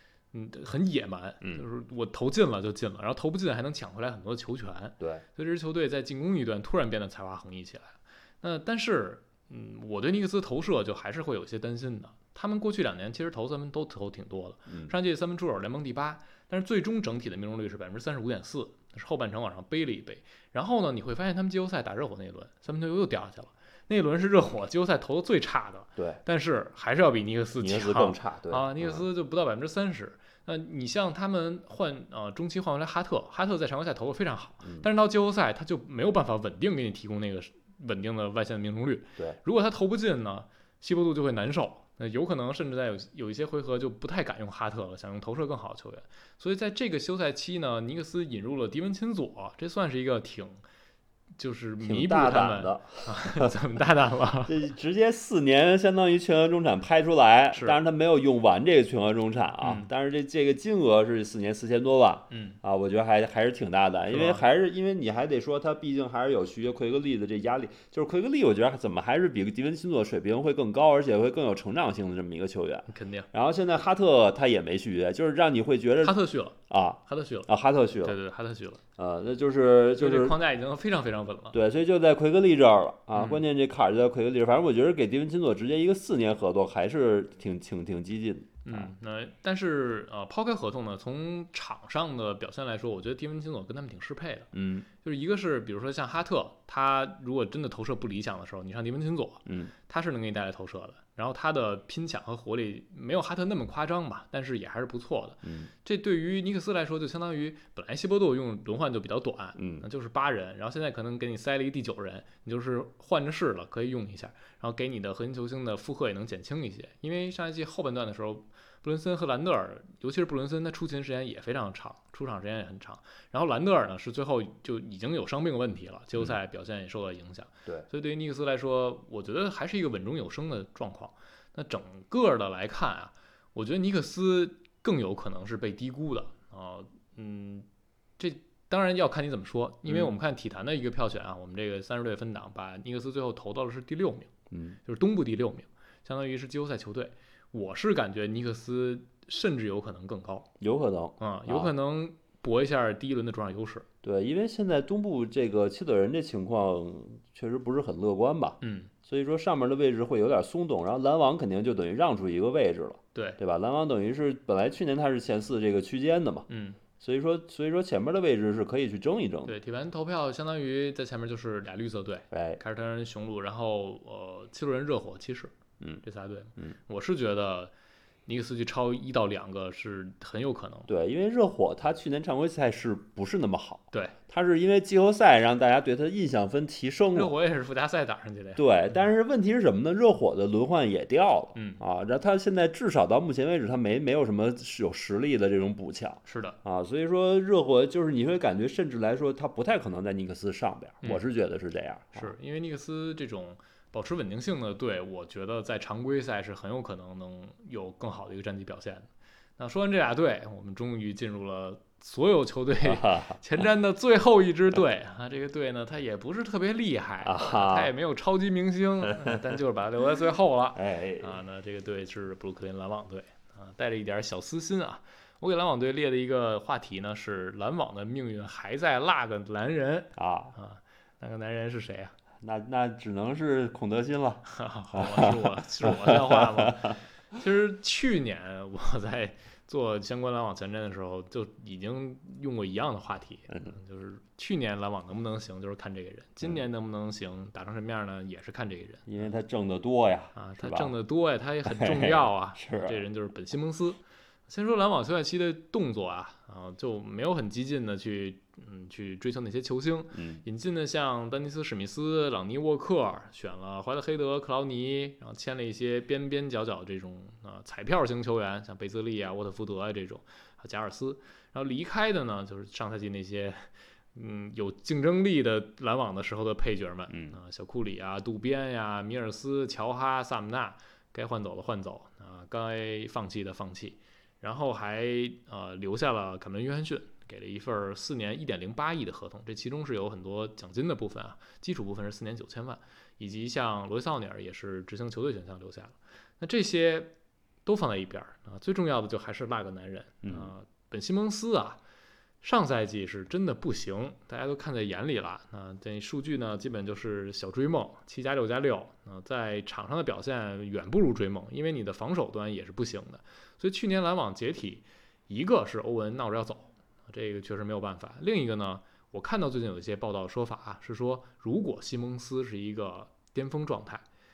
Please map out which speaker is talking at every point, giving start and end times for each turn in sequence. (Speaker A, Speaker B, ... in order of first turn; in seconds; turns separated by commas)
Speaker A: 0.3-50.6, Speaker B: 27.6-29.0, Speaker A: 51.4-54.6, Speaker B: 51.8-53.5, Speaker B: 54.5-76.2, Speaker A: 57.5-57.8, Speaker A: 59.6-59.9, Speaker A: 62.3-62.6, Speaker A: 64.1-64.4, Speaker A: 72.9-73.3, Speaker A: 76.0-77.5, Speaker B: 76.7-78.2, Speaker A: 78.0-78.8, Speaker B: 79.0-80.3, Speaker A: 80.0-81.5, Speaker B: 81.5-88.9, Speaker A: 83.1-83.4, Speaker A: 88.6-137.7, Speaker B: 94.5-94.9, Speaker B: 99.5-99.7, Speaker B: 105.4-105.7, Speaker B: 109.5-109.8, Speaker A: 138.2-144.3, Speaker B: 139.9-140.1, Speaker B: 144.5-144.8, Speaker A: 144.8-150.5, Speaker B: 150.6-151.7, Speaker A: 151.2-153.8, Speaker B: 154.0-166.5, Speaker A: 158.6-158.9, Speaker A: 163.1-163.4, Speaker A: 166.5-166.8, Speaker B: 167.0-169.5, Speaker A: 169.4-177.7, Speaker B: 172.3-172.6, Speaker A: 178.2-180.9, Speaker B: 180.9-187.3, Speaker A: 187.1-188.9, Speaker B: 188.6-202.3, Speaker A: 191.5-191.8, Speaker A: 196.2-196.6, Speaker A: 202.1-232.1, Speaker B: 212.8-213.4, Speaker B: 217.2-217.9, Speaker B: 220.7-221.3, Speaker B: 230.2-230.5, Speaker B: 232.4-236.9, Speaker A: 234.5-249.2, Speaker B: 249.1-250.9, Speaker A: 250.3-297.1, Speaker B: 251.7-253.0, Speaker B: 260.1-260.4, Speaker B: 277.1-277.4, Speaker A: 297.6-301.8, Speaker B: 300.2-300.5, Speaker A: 302.4-324.0